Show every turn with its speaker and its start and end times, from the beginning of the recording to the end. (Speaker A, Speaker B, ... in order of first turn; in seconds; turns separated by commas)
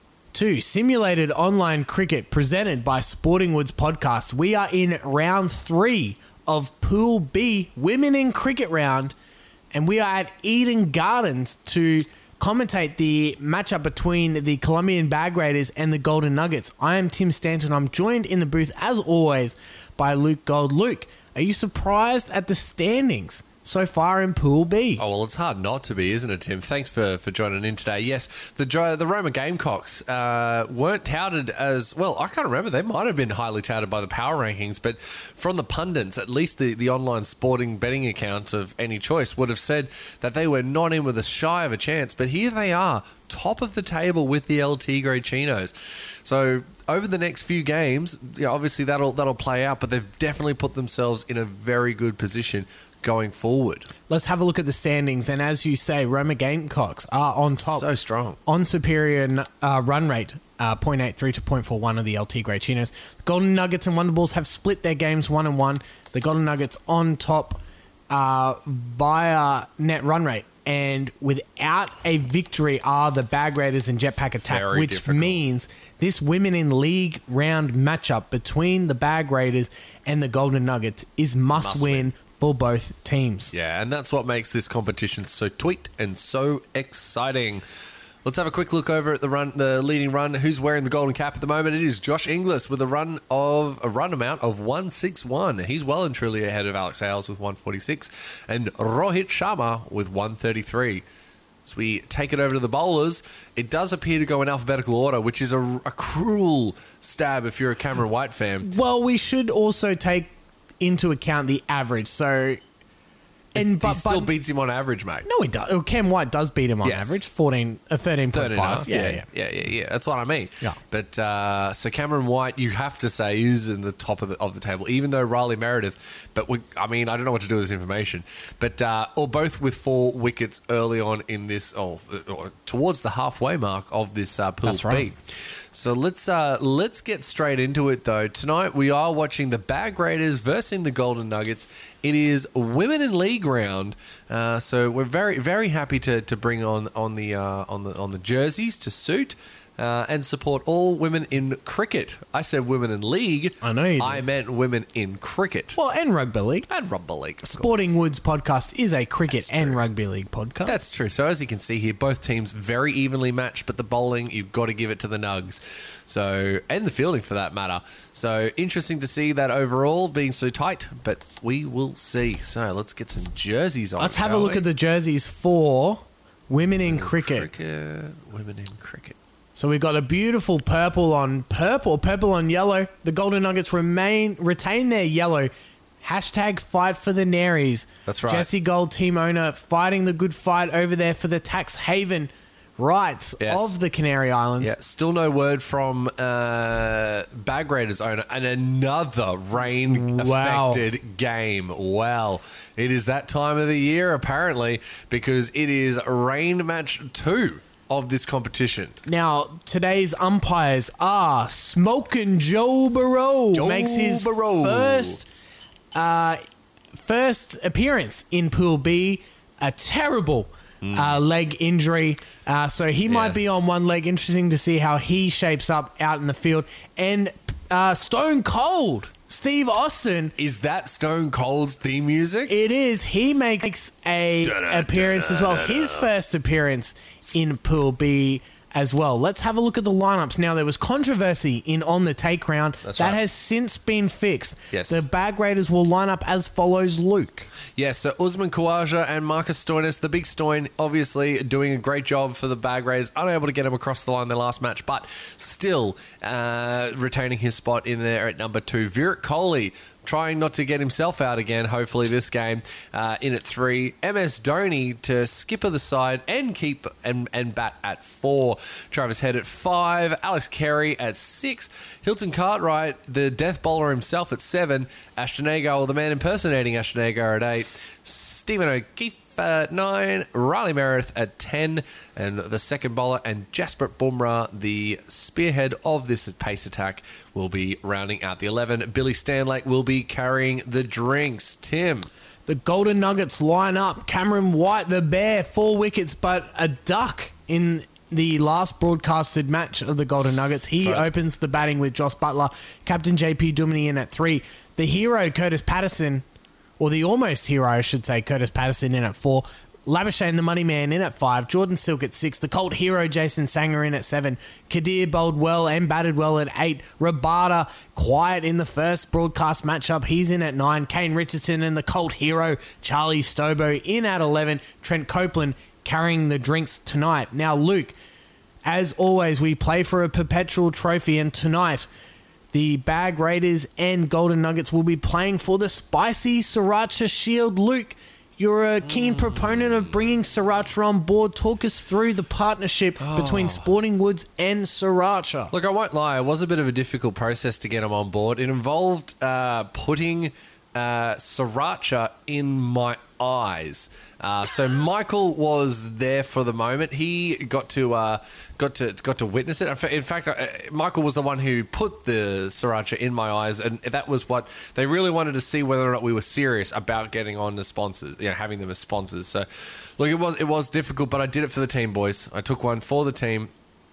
Speaker A: 0.3-9.2, Speaker A: 9.7-25.0, Speaker B: 25.0-53.9, Speaker A: 54.1-57.9, Speaker B: 57.6-58.4, Speaker A: 58.5-83.5, Speaker B: 74.4-75.4, Speaker B: 81.5-82.1, Speaker B: 83.5-87.7, Speaker B: 88.2-101.0, Speaker B: 101.7-108.7, Speaker A: 108.6-112.6, Speaker B: 113.5-115.3, Speaker A: 113.5-114.3, Speaker A: 115.2-119.3, Speaker B: 116.8-117.2, Speaker B: 118.3-155.8, Speaker A: 134.6-135.2, Speaker A: 153.6-154.2, Speaker A: 155.8-156.7, Speaker B: 156.7-158.0, Speaker A: 157.4-160.8, Speaker B: 159.3-159.8, Speaker B: 160.7-174.7, Speaker A: 174.0-177.5, Speaker B: 176.8-179.2, Speaker A: 179.6-194.7, Speaker B: 188.1-188.5, Speaker B: 193.4-193.8, Speaker B: 194.6-209.0, Speaker A: 199.7-200.9, Speaker A: 209.1-215.3, Speaker B: 213.5-215.2, Speaker A: 215.9-216.4, Speaker A: 217.0-230.3, Speaker B: 220.8-221.2, Speaker B: 223.1-223.6, Speaker B: 230.4-232.6, Speaker A: 232.5-247.5, Speaker B: 234.4-236.1, Speaker B: 242.8-243.2, Speaker B: 244.7-245.1, Speaker B: 247.8-292.1, Speaker A: 292.5-306.2, Speaker B: 300.8-301.1, Speaker A: 306.8-328.0, Speaker A: 328.6-331.9, Speaker A: 332.5-345.5, Speaker B: 338.8-340.1, Speaker B: 343.0-343.7, Speaker B: 345.5-373.5